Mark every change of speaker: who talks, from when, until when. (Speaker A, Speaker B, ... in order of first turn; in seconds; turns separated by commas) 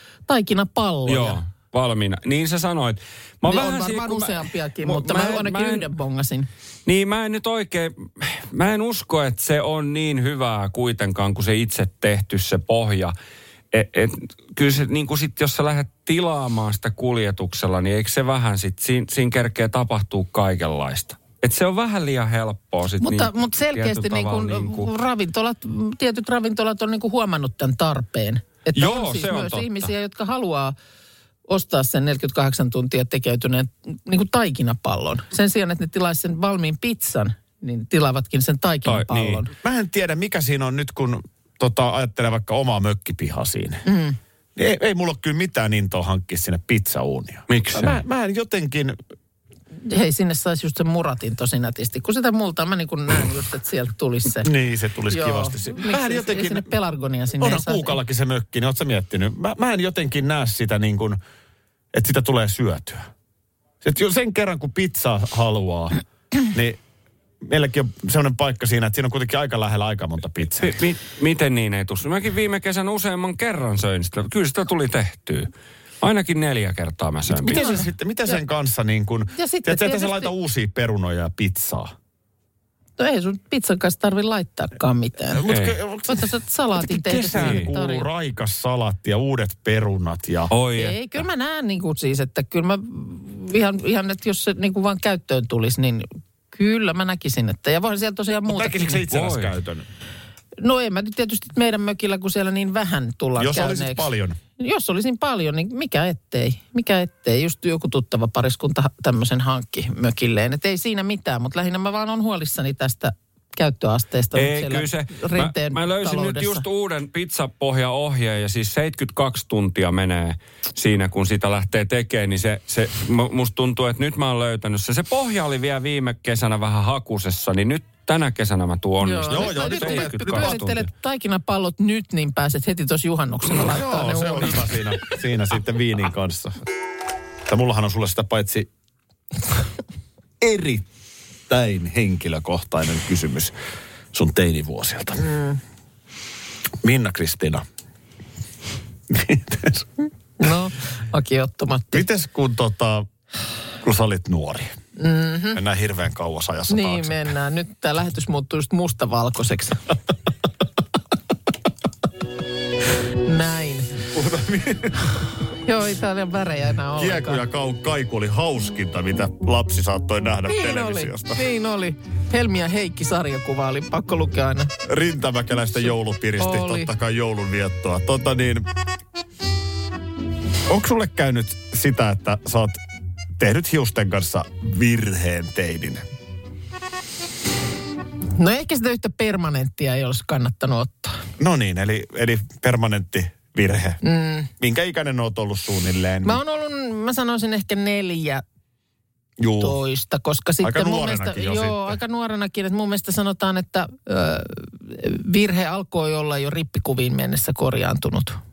Speaker A: 0.3-1.4, Speaker B: 1.1-5.9, Speaker A: 3.5-6.5, Speaker B: 6.9-13.1, Speaker B: 13.7-24.9, Speaker A: 23.0-30.7, Speaker B: 28.8-29.9, Speaker A: 31.5-39.5, Speaker B: 38.9-39.4, Speaker C: 39.6-43.8, Speaker A: 43.8-44.2, Speaker C: 44.6-49.0, Speaker B: 47.5-48.0, Speaker A: 49.8-54.5, Speaker C: 54.4-56.7, Speaker A: 55.1-58.0, Speaker C: 57.4-61.2, Speaker C: 61.9-63.1, Speaker C: 63.8-66.8, Speaker C: 67.4-70.8, Speaker B: 70.6-75.5, Speaker B: 76.0-77.7, Speaker C: 77.3-81.9, Speaker A: 77.5-77.8, Speaker A: 79.3-80.3, Speaker A: 83.0-85.5, Speaker C: 85.3-90.5, Speaker B: 85.5-85.8, Speaker A: 86.1-88.1, Speaker B: 87.3-87.7, Speaker B: 90.5-91.2, Speaker A: 90.7-99.0, Speaker C: 98.5-99.9, Speaker B: 99.1-99.5, Speaker A: 100.6-104.1, Speaker C: 103.4-104.4, Speaker A: 104.6-116.6, Speaker B: 114.3-130.9, Speaker A: 129.0-134.8, Speaker C: 129.3-130.6, Speaker C: 133.5-136.6, Speaker C: 137.5-138.7, Speaker C: 140.4-140.9, Speaker C: 141.5-143.5, Speaker C: 144.1-145.3, Speaker A: 145.2-145.6, Speaker C: 146.8-147.7, Speaker C: 149.1-149.9, Speaker A: 150.4-152.1, Speaker C: 151.9-153.1, Speaker C: 153.8-154.8, Speaker A: 155.0-155.6, Speaker C: 155.5-157.3, Speaker A: 156.7-159.9, Speaker A: 163.2-164.0, Speaker C: 164.1-165.3, Speaker A: 165.6-167.4, Speaker C: 166.9-171.4, Speaker A: 170.5-174.7, Speaker C: 174.8-178.7, Speaker A: 176.4-176.9, Speaker C: 180.7-182.8, Speaker C: 183.4-186.1, Speaker A: 188.3-191.2, Speaker C: 191.4-194.0, Speaker A: 194.0-194.5, Speaker C: 194.6-196.4, Speaker A: 196.2-198.4, Speaker C: 199.4-199.8, Speaker A: 199.6-208.4, Speaker C: 200.6-202.0